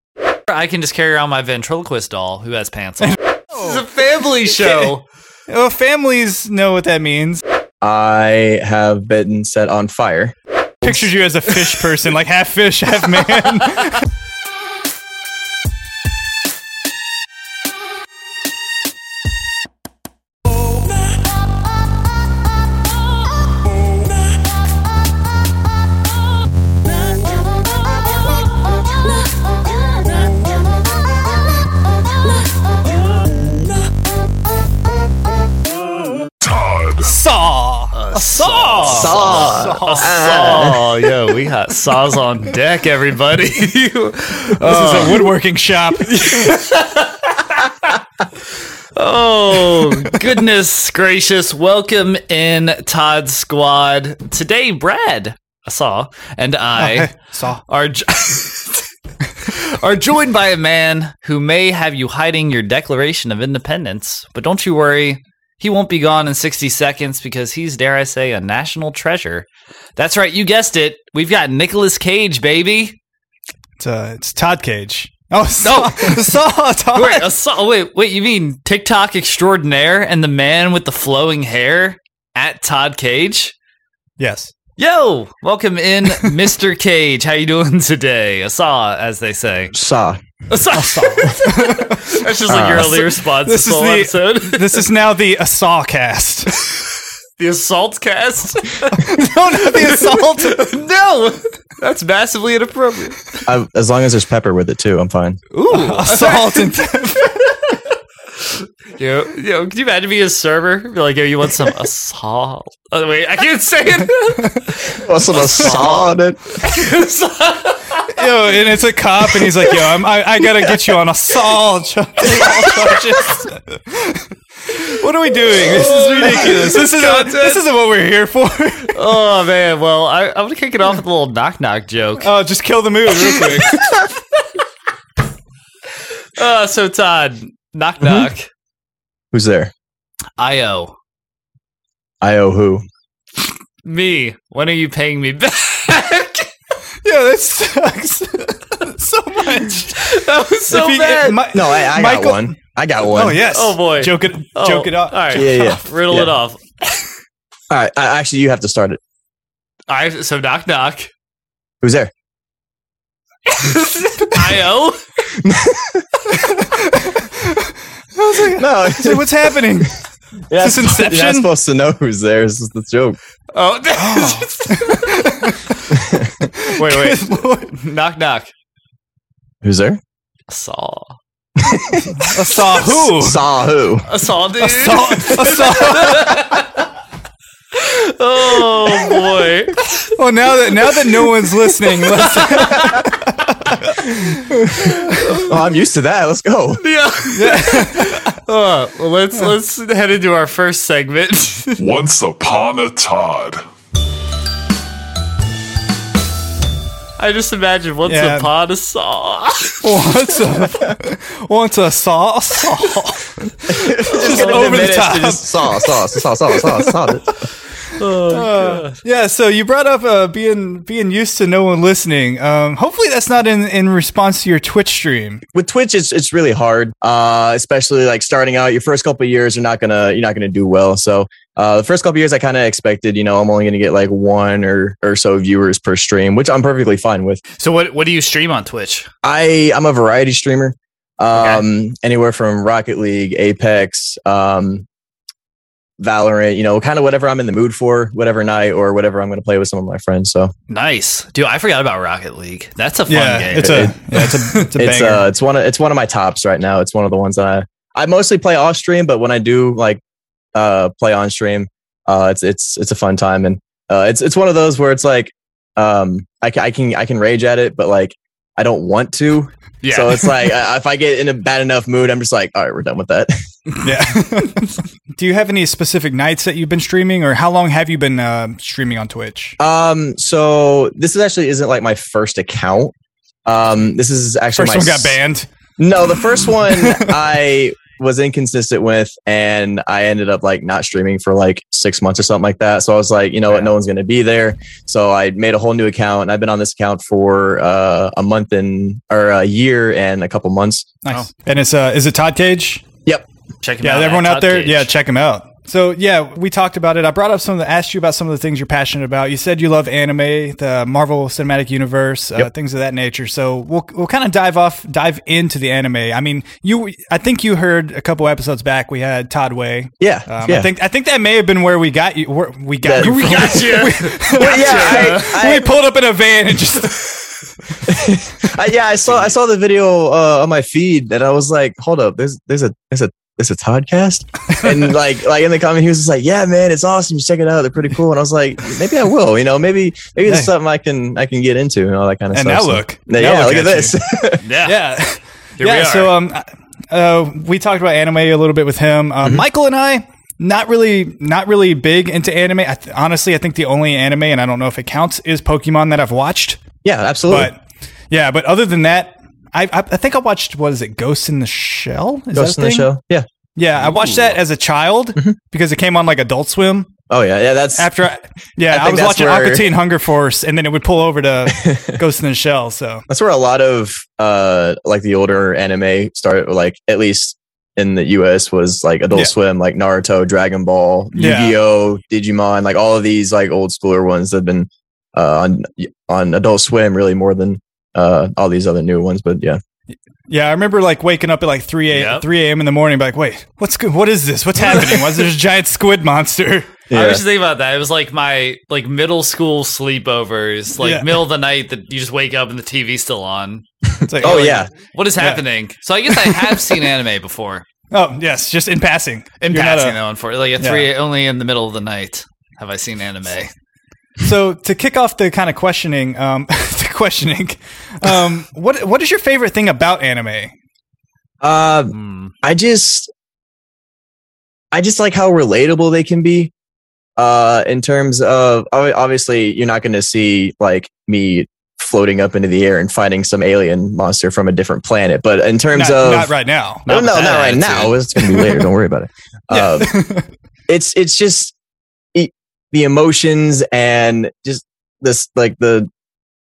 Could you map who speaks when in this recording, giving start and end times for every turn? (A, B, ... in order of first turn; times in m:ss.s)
0:00.5-0:05.0 A
0:03.1-0:03.8 B
0:05.5-0:07.4 B
0:07.8-0:11.1 C
0:10.8-0:14.1 B
0:36.4-0:37.1 D
0:37.0-0:40.7 B
0:37.9-0:45.3 A
0:38.8-0:40.8 C
0:44.6-0:46.5 B
0:46.0-0:48.0 A
0:48.9-0:57.1 A
0:56.8-0:57.6 B
0:57.7-1:13.0 A
1:13.8-1:17.2 B
1:15.6-1:16.2 A
1:16.9-1:23.5 A
1:24.2-1:24.5 B
1:24.8-1:29.7 A
1:29.7-1:30.2 C
1:30.5-1:34.9 A
1:30.8-1:36.6 B
1:32.5-1:32.8 C
1:37.4-1:43.2 A
1:38.9-1:40.6 B
1:43.4-1:45.4 C
1:45.5-1:46.7 A
1:45.7-1:47.6 B
1:48.4-1:58.2 A
1:54.9-1:56.4 C
1:58.1-2:09.0 B
2:02.2-2:03.4 A
2:05.5-2:07.6 A
2:08.9-2:12.3 A
2:12.2-2:13.9 B
2:13.2-2:14.0 A
2:16.4-2:18.5 A
2:18.0-2:18.3 C
2:19.3-2:19.7 C
2:20.4-2:20.9 A
2:22.2-2:22.8 C
2:23.8-2:26.5 A
2:27.0-2:30.1 B
2:29.9-2:31.5 A
2:30.7-2:32.5 B
2:31.5-2:33.4 C
2:33.1-2:35.8 B
2:33.4-2:37.0 A
2:35.3-2:36.3 C
2:37.7-2:39.0 C
2:39.9-2:41.1 A
2:41.8-2:42.1 C
2:43.5-2:45.0 A
2:45.4-2:46.1 C
2:46.5-2:50.0 B
2:48.5-2:49.3 C
2:50.5-2:53.2 C
2:50.5-2:51.5 B
2:53.5-2:55.7 A
2:54.0-2:55.6 B
2:56.0-2:56.3 C
2:56.5-2:57.7 B
2:56.7-2:58.5 A
2:59.6-3:00.0 C
3:00.5-3:01.2 A
3:01.6-3:04.1 C
3:02.2-3:03.4 B
3:04.1-3:06.8 A
3:04.6-3:06.4 B
3:07.7-3:10.1 A
3:10.2-3:13.9 B
3:10.8-3:13.1 A
3:14.2-3:16.8 C
3:14.8-3:15.5 A
3:16.8-3:21.8 A
3:17.3-3:18.3 B
3:21.8-3:23.6 D
3:27.2-3:29.9 A
3:28.0-3:28.5 B
3:29.8-3:37.1 B
3:33.7-3:37.3 C
3:34.0-3:34.8 A
3:38.0-3:39.0 A
3:38.3-3:45.4 B
3:45.5-3:57.4 C
3:57.6-3:59.1 A
3:59.2-4:04.8 C
4:01.3-4:01.6 A
4:06.0-4:10.5 C
4:10.7-4:14.6 A
4:13.1-4:15.2 B
4:13.6-4:13.9 C
4:14.7-4:20.0 C
4:20.5-4:33.3 C
4:29.8-4:30.3 A
4:33.8-4:39.6 B
4:39.6-4:42.9 C
4:43.4-4:45.2 C
4:44.6-4:45.4 B
4:45.8-5:00.9 C
4:46.6-4:47.2 B
5:01.0-5:02.8 B
5:03.6-5:04.9 A
5:03.8-5:27.3 B
5:20.0-5:20.7 C
5:22.8-5:23.6 C
5:23.0-5:25.4 A
5:24.3-5:25.7 C
5:27.9-5:44.4 C
5:42.3-5:44.0 B
5:44.4-5:44.8 A
5:44.6-5:56.6 B
5:45.6-5:46.1 A
5:56.8-5:57.5 C
5:57.3-5:57.6 B
5:58.1-6:02.9 B
6:02.3-6:03.2 C
6:03.6-6:06.9 B
6:03.8-6:04.4 A
6:07.1-6:07.9 C
6:07.7-6:13.0 B
6:08.7-6:09.7 C
6:11.5-6:12.0 C
6:13.1-6:29.6 C
6:21.1-6:21.6 B
6:30.3-6:36.7 B
6:31.9-6:32.2 A
6:34.6-6:35.2 A
6:36.9-6:37.2 C
6:36.9-6:43.6 A
6:40.8-6:41.1 B
6:44.0-6:44.6 B
6:44.1-6:44.7 C
6:44.2-6:47.6 A
6:46.1-6:46.8 B
6:47.9-6:50.0 B
6:49.4-6:53.5 A
6:50.6-6:50.9 B
6:54.2-7:00.5 B
7:01.4-7:03.1 C
7:01.9-7:02.3 A
7:04.7-7:06.5 C
7:07.2-7:16.3 C
7:15.7-7:16.8 B
7:16.8-7:18.0 A
7:16.8-7:20.0 C
7:18.3-7:18.6 B
7:19.5-7:20.3 B
7:20.7-7:21.5 C
7:22.1-7:25.9 C